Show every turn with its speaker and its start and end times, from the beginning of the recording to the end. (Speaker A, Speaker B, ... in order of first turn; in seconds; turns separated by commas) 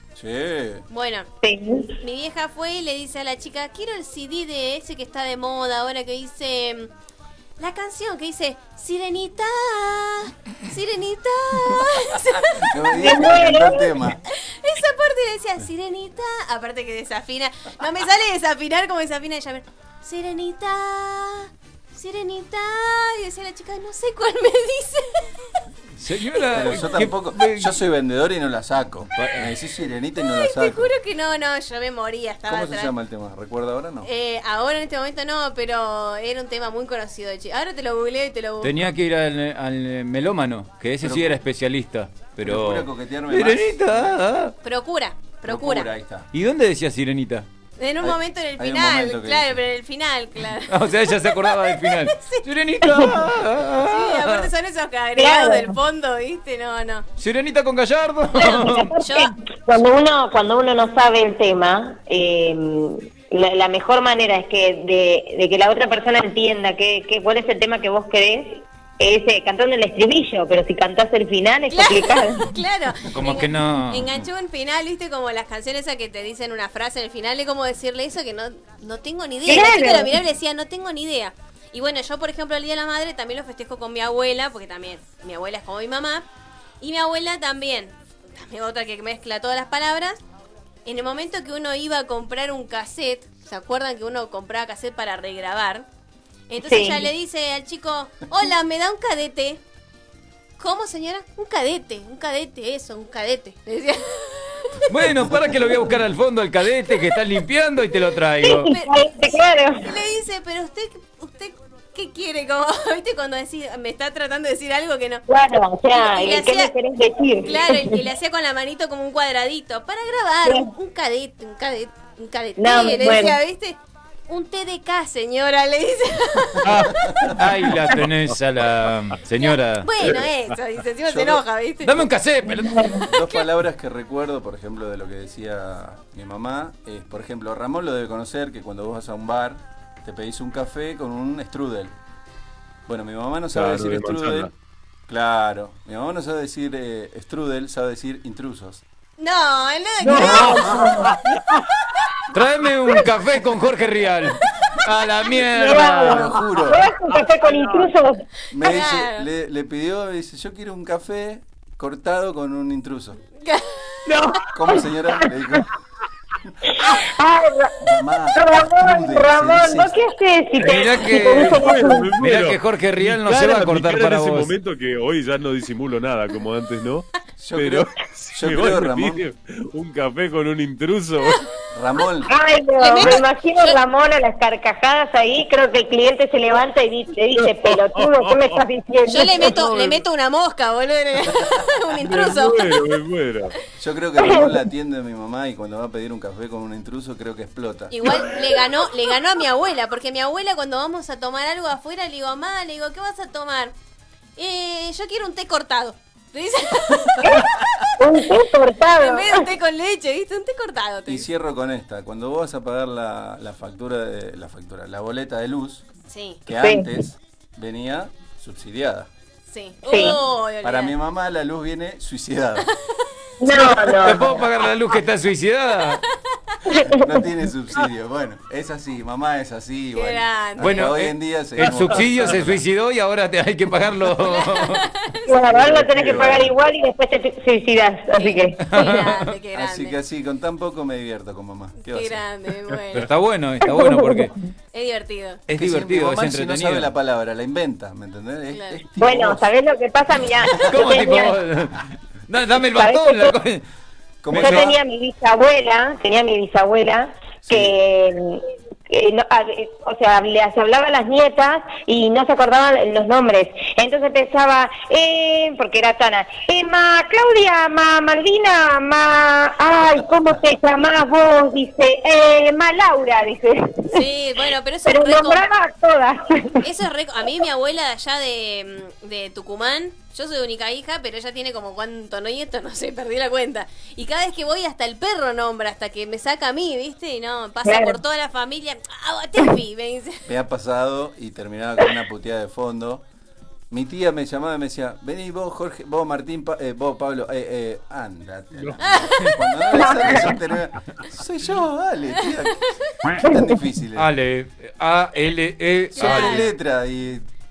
Speaker A: 0.2-0.8, Speaker B: 0.9-1.3, Speaker C: 1.4-1.9, Speaker B: 2.0-6.9, Speaker B: 7.6-13.3, Speaker A: 12.7-14.2, Speaker C: 13.0-13.9, Speaker B: 14.3-25.3, Speaker D: 26.0-27.8, Speaker A: 26.5-30.9, Speaker D: 29.2-29.5, Speaker B: 30.2-32.9, Speaker A: 32.5-34.1, Speaker B: 34.0-38.8, Speaker D: 38.6-44.5, Speaker A: 41.0-41.4, Speaker A: 42.4-44.1, Speaker B: 44.6-45.9, Speaker A: 45.5-46.3, Speaker D: 46.3-47.5, Speaker B: 47.8-52.5, Speaker A: 48.0-49.6, Speaker D: 50.7-54.5, Speaker B: 53.9-57.1, Speaker C: 55.2-55.8, Speaker D: 57.2-58.9, Speaker C: 58.4-72.5, Speaker B: 59.0-59.3, Speaker B: 71.7-86.3, Speaker D: 73.1-74.1, Speaker C: 79.5-80.2, Speaker B: 86.8-90.2, Speaker B: 90.9-95.9, Speaker B: 96.5-99.6, Speaker C: 96.6-97.1, Speaker B: 100.6-104.8, Speaker D: 104.9-108.7, Speaker C: 108.4-109.8, Speaker B: 108.5-115.2, Speaker C: 115.3-118.0, Speaker B: 115.9-116.7, Speaker B: 117.4-123.8, Speaker C: 122.6-123.4, Speaker B: 124.3-126.7, Speaker D: 126.6-130.2, Speaker A: 127.1-127.4, Speaker B: 129.4-132.0, Speaker A: 131.1-131.4, Speaker D: 131.8-133.0, Speaker C: 132.6-133.0, Speaker A: 133.1-141.9, Speaker A: 142.9-144.5, Speaker E: 143.5-144.5, Speaker A: 145.1-148.8, Speaker B: 149.2-150.8, Speaker C: 150.0-151.1, Speaker A: 150.2-150.9, Speaker D: 152.3-156.3, Speaker C: 155.5-158.2, Speaker A: 156.0-156.9, Speaker E: 157.4-157.9, Speaker A: 158.5-163.2, Speaker B: 158.6-159.2, Speaker B: 163.4-163.8, Speaker C: 164.1-164.8, Speaker A: 164.5-165.7, Speaker C: 166.8-167.8, Speaker A: 167.8-170.0, Speaker C: 168.3-172.1, Speaker D: 170.6-174.5, Speaker E: 171.3-181.4, Speaker A: 177.4-179.2, Speaker A: 181.7-182.3, Speaker C: 182.3-189.6, Speaker B: 182.8-183.8, Speaker E: 187.3-188.7, Speaker B: 189.1-192.7, Speaker E: 189.5-190.0, Speaker E: 192.0-193.5, Speaker A: 193.8-197.9, Speaker C: 194.2-194.5, Speaker B: 197.9-203.7, Speaker B: 204.4-208.2, Speaker C: 207.2-209.5, Speaker B: 208.9-211.3, Speaker A: 211.1-215.8, Speaker B: 216.1-216.4, Speaker A: 216.5-219.1, Speaker C: 216.6-216.9, Speaker B: 219.5-220.9, Speaker C: 219.9-220.2, Speaker A: 220.6-222.7, Speaker C: 223.4-224.4, Speaker D: 223.9-226.0, Speaker C: 226.7-227.1, Speaker A: 226.9-232.6, Speaker B: 229.9-230.9, Speaker D: 230.6-234.8, Speaker B: 234.2-235.6, Speaker C: 235.3-238.6, Speaker A: 235.5-236.5, Speaker B: 238.2-240.0, Speaker D: 238.7-239.2, Speaker A: 239.5-242.2, Speaker B: 241.8-243.1, Speaker D: 242.9-244.3, Speaker C: 243.7-244.3, Speaker B: 244.7-245.4, Speaker D: 245.5-246.9, Speaker A: 245.6-249.5, Speaker B: 248.5-248.8, Speaker C: 249.0-251.4, Speaker D: 250.6-253.7, Speaker C: 252.7-253.3, Speaker A: 254.2-254.8, Speaker D: 254.3-254.7, Speaker C: 254.3-274.0, Speaker A: 257.5-257.7, Speaker B: 273.9-275.4, Speaker C: 274.9-276.6, Speaker B: 276.6-290.2, Speaker C: 287.6-288.0, Speaker A: 290.3-293.0, Speaker A: 293.7-304.1, Speaker B: 298.8-299.3, Speaker C: 299.8-300.1, Speaker D: 304.0-306.5, Speaker B: 305.9-306.5, Speaker A: 306.0-307.2